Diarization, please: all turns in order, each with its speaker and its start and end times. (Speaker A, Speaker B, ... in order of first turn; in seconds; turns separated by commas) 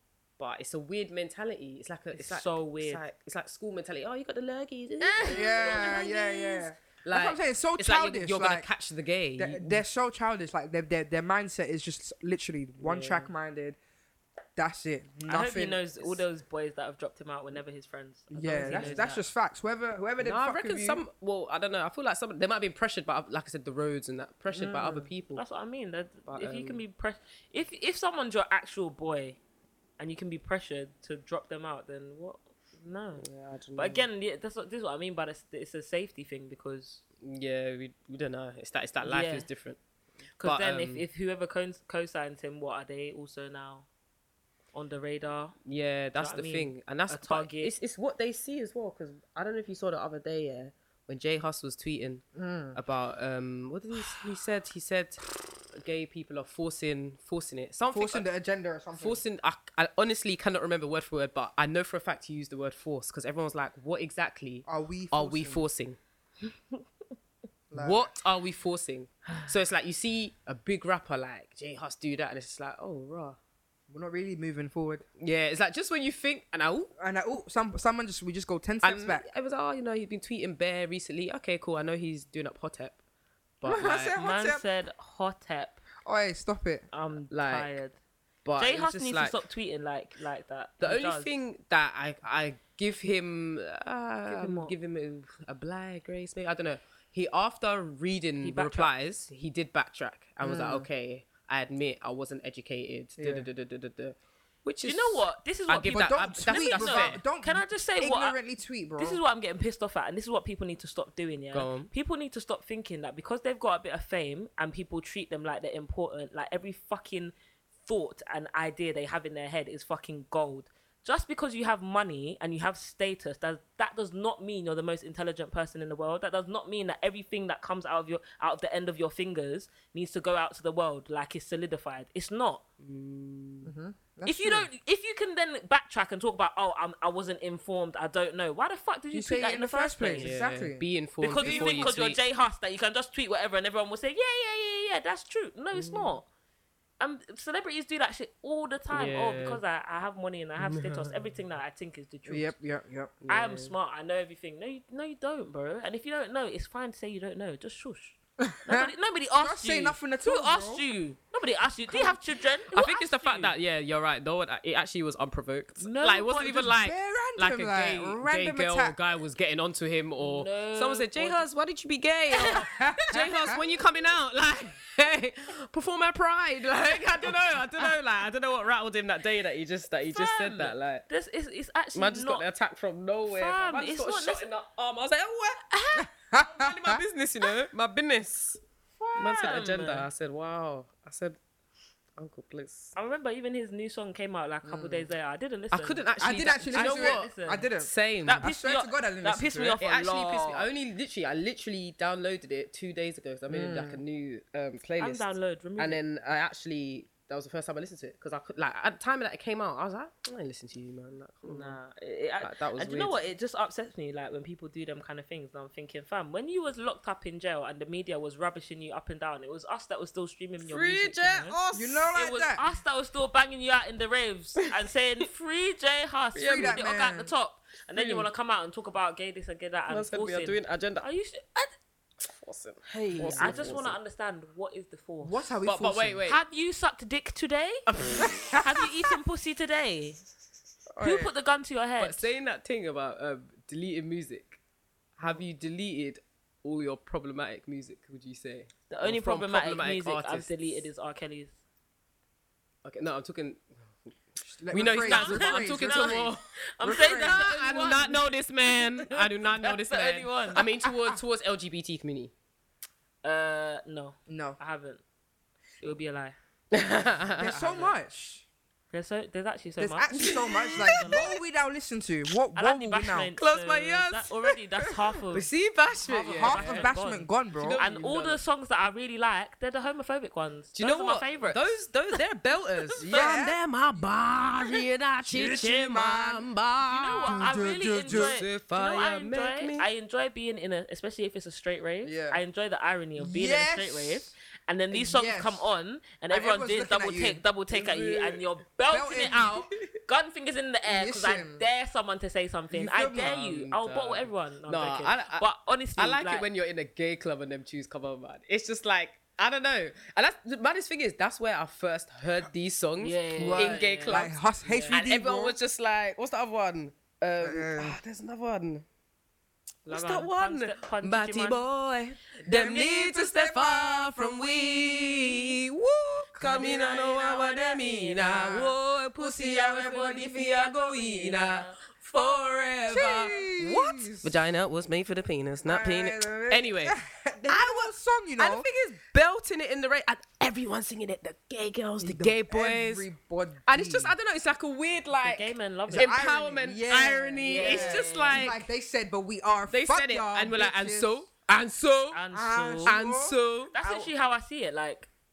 Speaker A: 0.4-6.1, Speaker B: 2.1-3.0, Speaker B: 5.0-6.7, Speaker C: 5.2-8.7, Speaker A: 7.0-9.8, Speaker C: 9.4-13.8, Speaker A: 12.8-13.3, Speaker C: 14.6-16.2, Speaker B: 15.3-19.2, Speaker C: 18.3-21.0, Speaker A: 18.6-19.1, Speaker A: 20.2-25.4, Speaker C: 24.5-25.1, Speaker B: 25.4-29.4, Speaker A: 26.3-26.8, Speaker B: 30.0-33.2, Speaker A: 33.2-34.1, Speaker B: 33.8-37.0, Speaker A: 37.2-39.8, Speaker B: 39.0-39.5, Speaker B: 40.4-43.9, Speaker A: 40.4-41.0, Speaker B: 44.7-45.6, Speaker A: 45.6-58.3, Speaker B: 46.2-47.7, Speaker C: 52.4-52.8, Speaker C: 57.9-59.2, Speaker A: 59.0-66.0, Speaker C: 64.7-65.6, Speaker C: 67.7-68.1, Speaker A: 67.8-73.4, Speaker C: 73.9-75.0, Speaker A: 75.2-76.9, Speaker C: 77.0-79.3, Speaker A: 78.8-83.0, Speaker A: 83.6-84.1, Speaker C: 83.7-84.6, Speaker B: 84.1-85.8, Speaker C: 86.0-86.9, Speaker B: 86.9-88.0, Speaker A: 87.3-87.8, Speaker A: 88.5-89.4, Speaker B: 88.6-91.4, Speaker A: 90.8-107.2, Speaker B: 94.3-94.7, Speaker B: 98.4-98.9, Speaker C: 100.4-100.9, Speaker C: 103.2-103.5, Speaker B: 104.8-108.4, Speaker C: 105.9-109.2, Speaker B: 109.0-117.3, Speaker A: 111.5-111.9, Speaker B: 117.8-132.6, Speaker A: 132.8-133.7, Speaker C: 133.7-134.7, Speaker B: 134.3-140.3, Speaker C: 139.1-140.8, Speaker A: 140.2-142.2, Speaker B: 141.2-146.3, Speaker C: 141.4-141.9, Speaker A: 145.7-146.1, Speaker B: 147.0-152.5, Speaker A: 148.9-149.6, Speaker A: 150.6-151.4, Speaker C: 152.3-153.2, Speaker A: 153.2-153.7, Speaker B: 153.3-163.5, Speaker C: 158.4-160.8, Speaker A: 162.7-181.1, Speaker B: 165.8-166.7, Speaker C: 166.5-169.0, Speaker B: 170.2-171.4, Speaker B: 172.3-173.8, Speaker C: 172.5-173.6, Speaker B: 180.1-182.4, Speaker A: 181.9-188.6, Speaker B: 183.3-184.5, Speaker C: 185.9-187.0, Speaker B: 189.0-190.1, Speaker A: 189.2-191.4, Speaker A: 192.2-192.9, Speaker B: 193.0-197.7, Speaker C: 194.6-195.1, Speaker A: 195.7-198.5, Speaker C: 196.2-199.8, Speaker B: 198.2-200.7, Speaker A: 199.8-211.8, Speaker C: 203.5-204.0, Speaker B: 205.0-206.0, Speaker B: 211.4-221.6, Speaker A: 212.4-213.2, Speaker A: 220.6-222.1, Speaker C: 221.7-222.6, Speaker B: 222.1-231.8, Speaker A: 226.3-226.8, Speaker C: 226.5-227.3, Speaker A: 227.9-228.3, Speaker A: 229.9-231.1, Speaker A: 232.2-234.0, Speaker C: 232.9-233.8, Speaker B: 233.4-235.4, Speaker C: 235.2-236.2, Speaker A: 235.6-236.4, Speaker B: 236.3-237.9, Speaker A: 237.9-238.6, Speaker C: 238.2-238.7, Speaker B: 238.6-240.2, Speaker C: 240.9-241.3, Speaker B: 241.0-242.3, Speaker A: 242.0-244.6, Speaker A: 245.2-250.8, Speaker B: 248.9-251.6, Speaker A: 252.8-262.3, Speaker C: 254.6-257.5, Speaker B: 255.1-260.7, Speaker B: 263.2-265.0, Speaker C: 264.3-264.6, Speaker B: 265.8-266.4, Speaker A: 266.7-267.9, Speaker C: 267.4-268.4, Speaker B: 268.9-271.4, Speaker C: 269.8-273.3, Speaker A: 270.2-271.1, Speaker B: 272.6-275.5, Speaker A: 273.4-274.6, Speaker A: 275.3-276.9, Speaker B: 276.1-281.8, Speaker C: 276.2-277.8, Speaker A: 277.6-278.4, Speaker A: 280.8-289.9, Speaker B: 282.8-283.2, Speaker C: 283.0-283.6, Speaker C: 285.3-286.5, Speaker B: 286.8-306.5, Speaker C: 287.3-288.4, Speaker C: 292.0-292.4, Speaker C: 293.2-294.3, Speaker C: 294.9-295.7, Speaker C: 296.3-297.4, Speaker A: 297.7-298.4, Speaker C: 298.9-299.6, Speaker C: 300.9-301.6, Speaker C: 302.7-303.4, Speaker A: 303.1-314.4, Speaker B: 313.0-315.0, Speaker C: 313.4-315.6, Speaker A: 314.9-318.9, Speaker C: 317.4-318.0, Speaker B: 319.9-321.6, Speaker A: 319.9-343.1, Speaker C: 322.5-325.6, Speaker C: 326.4-326.8, Speaker B: 326.4-328.6, Speaker C: 328.2-330.1, Speaker B: 330.1-333.5, Speaker C: 332.9-334.3, Speaker C: 335.6-338.7, Speaker C: 342.0-344.1, Speaker A: 343.7-348.7, Speaker B: 345.1-346.2, Speaker C: 345.9-351.2, Speaker B: 347.4-348.5, Speaker A: 349.7-352.2, Speaker B: 352.1-353.0, Speaker C: 352.3-354.0, Speaker A: 352.9-354.1, Speaker B: 353.7-355.1